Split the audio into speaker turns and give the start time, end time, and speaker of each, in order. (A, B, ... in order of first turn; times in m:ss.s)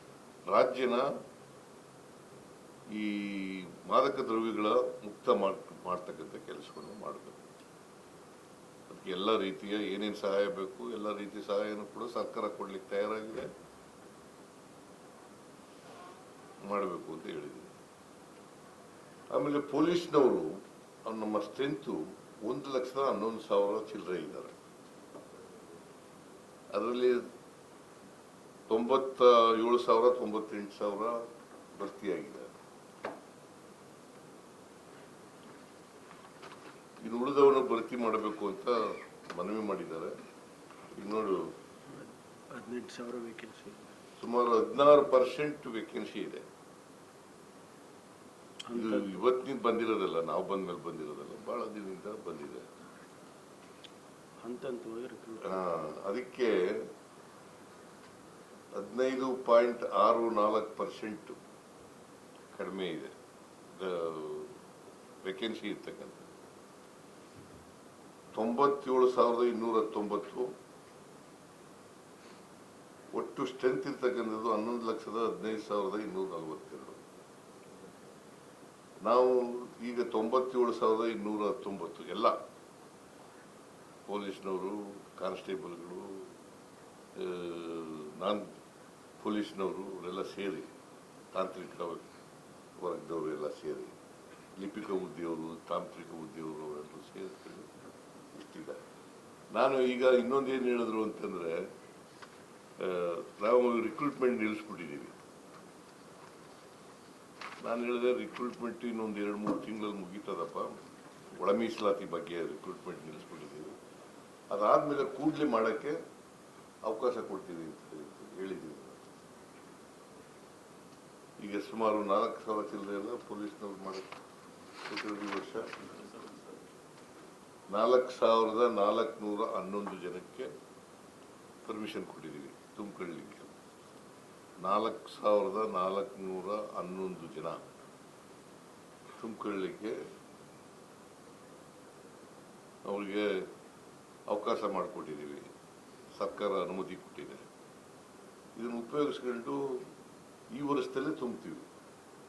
0:00.5-0:01.0 A
0:02.9-0:07.5 A
0:08.9-0:13.5 A
0:16.6-0:17.7 A
0:19.3-0:24.5 A
0:26.7-0:27.2 A
0:28.7-0:31.2 A
0:31.7-0:32.5 A
0:37.0-0:40.1 A
0:40.9-0:41.5 A
0:41.9-0:43.9 B
0:44.2-0:46.4 A
0:48.7-0:49.1 B
0:48.7-0:52.6 A
0:54.4-0:55.5 B
0:55.4-0:56.9 A
0:58.7-1:01.4 A
1:02.5-1:03.1 A
1:03.7-1:04.5 A
1:05.2-1:06.3 A
1:08.3-1:10.5 A
1:13.1-1:17.0 A
1:19.0-1:22.4 A
1:24.1-1:26.3 A
1:27.2-1:28.5 A
1:29.2-1:30.7 A
1:31.3-1:32.1 A
1:32.8-1:33.9 A
1:34.6-1:37.7 A
1:38.3-1:38.8 A
1:39.5-1:41.7 A
1:42.8-1:45.1 A
1:47.6-1:50.7 A
1:51.4-1:53.7 A
1:54.5-1:56.0 A
1:56.8-1:59.0 A
2:01.4-2:04.1 A
2:04.8-2:05.7 A
2:07.7-2:10.5 A
2:11.6-2:13.5 A
2:14.6-2:17.6 A
2:19.2-2:20.0 A
2:22.8-2:23.4 A
2:24.3-2:25.5 A
2:26.2-2:27.4 A
2:28.6-2:29.8 A
2:30.5-2:31.7 A